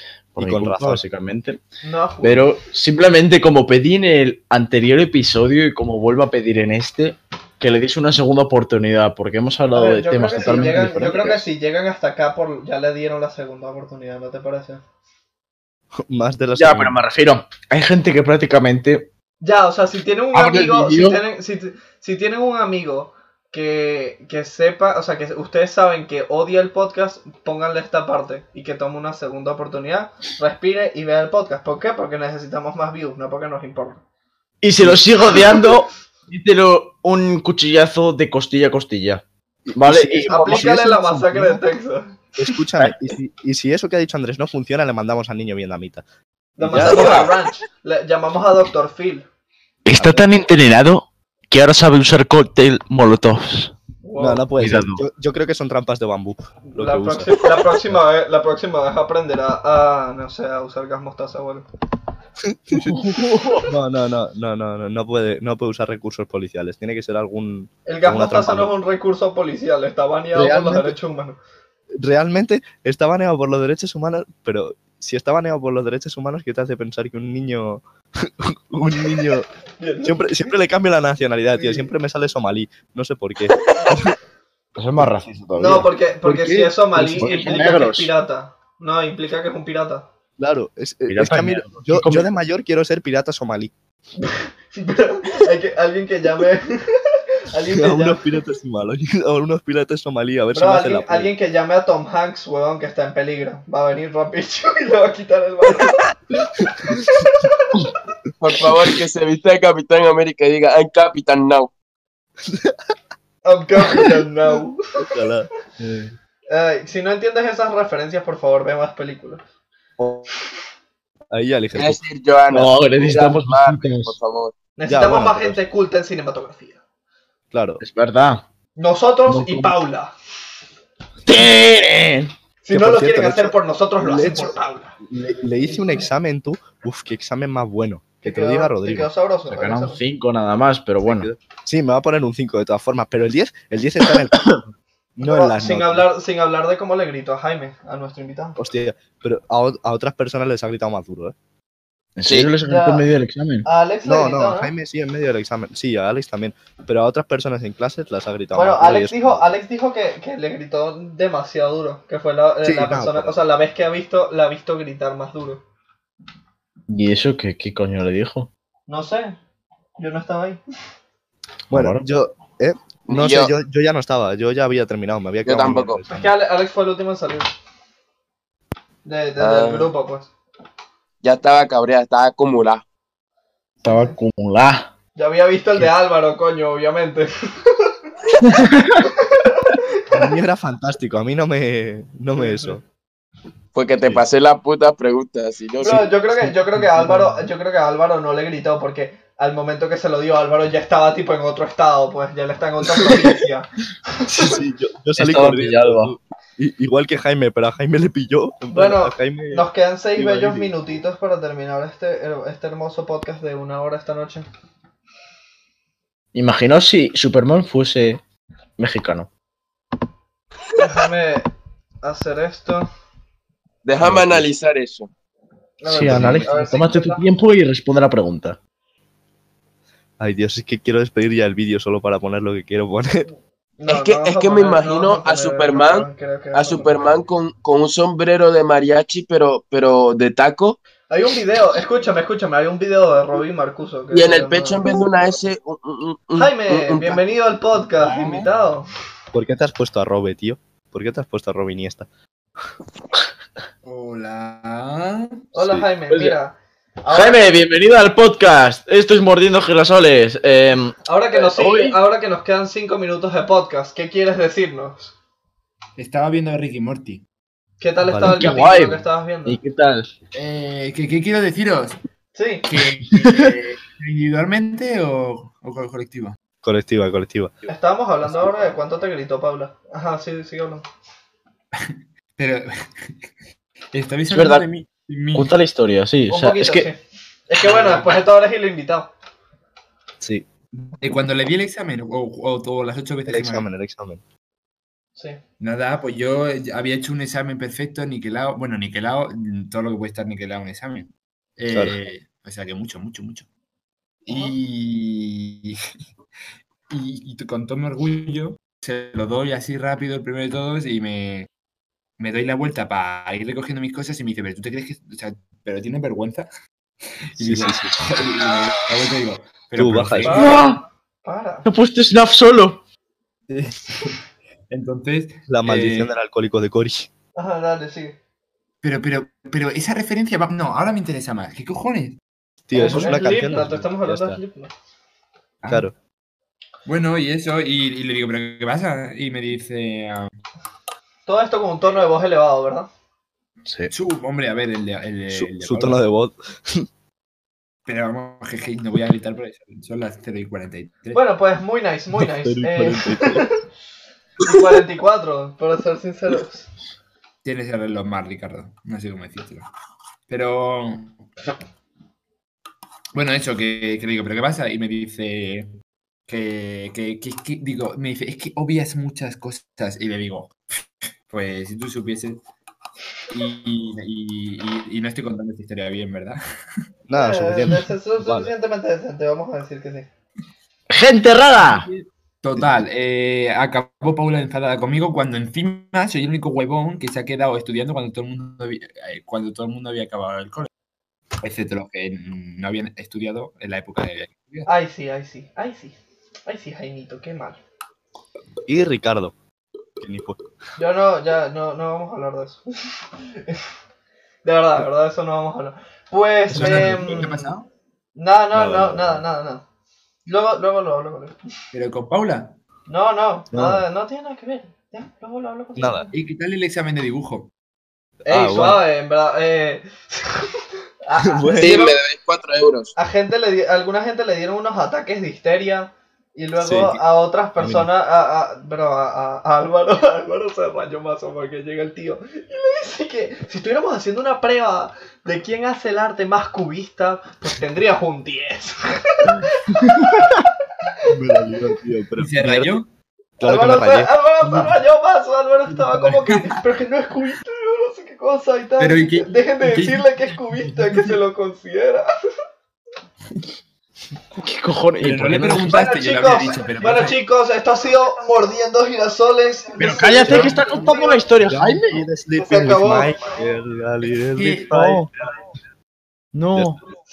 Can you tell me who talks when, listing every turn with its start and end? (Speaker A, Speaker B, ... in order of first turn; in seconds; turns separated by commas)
Speaker A: 0.3-1.6, Speaker B: 0.4-1.0, Speaker C: 1.8-2.5, Speaker A: 2.2-11.4, Speaker C: 9.7-14.8, Speaker B: 16.0-17.0, Speaker A: 16.6-19.1, Speaker C: 19.4-34.0, Speaker A: 20.3-21.2, Speaker A: 34.6-39.2, Speaker B: 39.7-41.6, Speaker A: 39.7-40.8, Speaker C: 40.3-42.2, Speaker B: 42.4-46.0, Speaker C: 46.6-49.3, Speaker B: 46.6-47.3, Speaker A: 46.7-47.4, Speaker A: 49.9-53.7, Speaker B: 50.0-50.3, Speaker C: 54.0-54.5, Speaker B: 54.2-58.0, Speaker A: 54.6-55.0, Speaker C: 56.7-61.6, Speaker B: 62.5-63.0, Speaker A: 62.7-63.7, Speaker B: 63.6-68.7, Speaker C: 67.9-71.4, Speaker B: 70.3-71.0, Speaker B: 72.0-79.5, Speaker C: 79.8-80.5, Speaker B: 80.0-84.2, Speaker C: 81.5-81.9, Speaker C: 83.6-84.0, Speaker A: 84.8-85.9, Speaker C: 85.6-90.0, Speaker B: 86.2-87.7, Speaker A: 87.0-88.1, Speaker B: 90.4-93.7, Speaker A: 91.1-92.3, Speaker C: 94.2-98.2, Speaker B: 97.7-101.3, Speaker C: 100.5-108.0, Speaker B: 106.7-107.1, Speaker D: 108.4-111.7, Speaker B: 112.5-112.8, Speaker C: 113.5-114.8, Speaker B: 115.0-116.2, Speaker C: 116.5-119.4, Speaker B: 120.0-120.3, Speaker B: 121.3-122.0, Speaker D: 121.8-124.5, Speaker A: 122.5-124.2, Speaker C: 124.8-126.8, Speaker B: 124.9-125.6, Speaker B: 127.5-127.8, Speaker A: 127.8-128.4, Speaker C: 128.8-130.1, Speaker A: 129.3-129.8, Speaker A: 131.3-132.3, Speaker C: 132.6-135.0, Speaker B: 132.7-139.1, Speaker C: 135.6-136.1, Speaker C: 138.2-140.0, Speaker A: 139.5-141.3, Speaker B: 141.0-146.1, Speaker C: 145.2-148.6, Speaker B: 148.6-151.3, Speaker A: 152.2-153.7, Speaker D: 152.3-152.5, Speaker C: 152.7-153.1, Speaker C: 153.7-154.7, Speaker B: 154.1-159.5, Speaker C: 158.5-165.6, Speaker B: 162.6-163.4, Speaker A: 166.9-168.5, Speaker C: 168.9-169.4, Speaker C: 170.0-170.6, Speaker A: 171.7-172.1, Speaker B: 171.7-176.3, Speaker D: 173.1-173.5, Speaker D: 175.4-176.0, Speaker C: 176.1-177.5, Speaker C: 179.1-180.3, Speaker D: 179.4-179.9, Speaker D: 181.2-182.8, Speaker C: 183.8-184.2, Speaker A: 183.8-184.9, Speaker C: 185.2-188.0, Speaker A: 188.5-189.1, Speaker C: 189.0-190.3, Speaker B: 190.1-192.8, Speaker C: 192.3-192.8, Speaker D: 193.8-196.1, Speaker C: 195.8-204.6, Speaker B: 196.4-197.3, Speaker B: 204.3-211.0, Speaker A: 205.2-206.1, Speaker C: 208.7-214.5, Speaker A: 216.3-218.2, Speaker A: 218.8-219.3, Speaker C: 220.8-221.5, Speaker C: 222.0-222.9, Speaker D: 223.8-225.1, Speaker B: 224.0-224.5, Speaker C: 225.8-227.2, Speaker A: 225.9-228.6, Speaker B: 226.0-226.5, Speaker B: 230.2-233.3, Speaker C: 233.8-237.0, Speaker D: 233.9-240.8, Speaker C: 241.1-244.9, Speaker D: 244.1-247.2, Speaker C: 246.4-248.9, Speaker E: 247.9-248.5, Speaker B: 249.3-252.1, Speaker E: 253.8-255.4, Speaker C: 255.5-257.5, Speaker B: 255.6-255.8, Speaker A: 256.1-256.4, Speaker A: 257.1-262.0, Speaker C: 261.1-265.1, Speaker E: 266.0-267.2, Speaker C: 267.8-269.6, Speaker B: 268.1-268.6, Speaker A: 268.2-270.1, Speaker E: 270.3-272.0, Speaker C: 272.4-272.6, Speaker E: 272.6-276.4, Speaker A: 273.1-273.5, Speaker B: 276.6-277.6, Speaker C: 277.7-280.9, Speaker E: 281.8-283.1, Speaker E: 283.9-285.5, Speaker A: 284.3-284.7, Speaker A: 285.3-286.9, Speaker C: 286.3-289.1, Speaker E: 287.6-288.1, Speaker B: 290.2-290.5, Speaker E: 291.0-293.7, Speaker B: 293.3-294.2, Speaker E: 295.6-303.5, Speaker E: 304.3-305.8, Speaker C: 304.3-304.6, Speaker E: 306.9-311.5, Speaker E: 312.2-316.5, Speaker E: 317.3-320.6, Speaker B: 317.4-318.0, Speaker B: 319.8-320.4, Speaker C: 320.2-321.7, Speaker A: 320.3-320.8, Speaker A: 321.7-322.8, Speaker E: 323.5-324.1, Speaker E: 324.7-326.1, Speaker B: 325.5-327.1, Speaker C: 327.4-328.2, Speaker E: 328.8-332.2, Speaker B: 332.7-334.4, Speaker C: 332.7-334.7, Speaker E: 336.9-340.3, Speaker C: 341.3-342.9, Speaker A: 343.7-343.9, Speaker E: 343.9-346.0, Speaker B: 345.3-346.9, Speaker E: 347.9-351.2, Speaker C: 351.1-353.6, Speaker B: 352.1-353.5, Speaker C: 354.4-356.7, Speaker E: 357.4-359.7, Speaker E: 360.3-361.2, Speaker E: 363.1-365.7, Speaker E: 366.3-372.4, Speaker E: 373.3-376.4, Speaker B: 377.1-378.5, Speaker C: 377.1-380.1, Speaker A: 380.9-381.9, Speaker E: 381.8-390.7, Speaker E: 391.4-394.7, Speaker C: 394.7-397.6, Speaker B: 398.7-399.4, Speaker B: 400.0-400.4, Speaker C: 400.8-403.6, Speaker C: 404.4-407.5, Speaker B: 406.5-407.3, Speaker E: 406.5-407.7, Speaker C: 408.2-409.6, Speaker B: 408.5-409.2, Speaker C: 410.3-411.4, Speaker E: 411.7-412.6, Speaker C: 412.9-416.1, Speaker B: 413.5-413.8, Speaker B: 415.8-416.1, Speaker E: 416.1-417.5, Speaker C: 418.3-422.0, Speaker B: 418.3-418.8, Speaker B: 421.2-421.9, Speaker D: 421.6-422.9, Speaker C: 423.0-440.3, Speaker B: 426.6-427.0, Speaker B: 427.6-427.9, Speaker C: 440.9-441.7, Speaker B: 441.1-442.8, Speaker E: 442.2-442.9, Speaker B: 443.4-444.7, Speaker C: 443.4-452.1, Speaker E: 445.7-446.6, Speaker E: 448.8-451.1, Speaker A: 454.4-455.8, Speaker E: 455.0-457.2, Speaker C: 455.7-461.3, Speaker A: 459.8-462.0, Speaker B: 460.2-460.8, Speaker B: 461.4-465.1, Speaker C: 462.4-463.2, Speaker E: 464.0-465.1, Speaker E: 466.3-466.8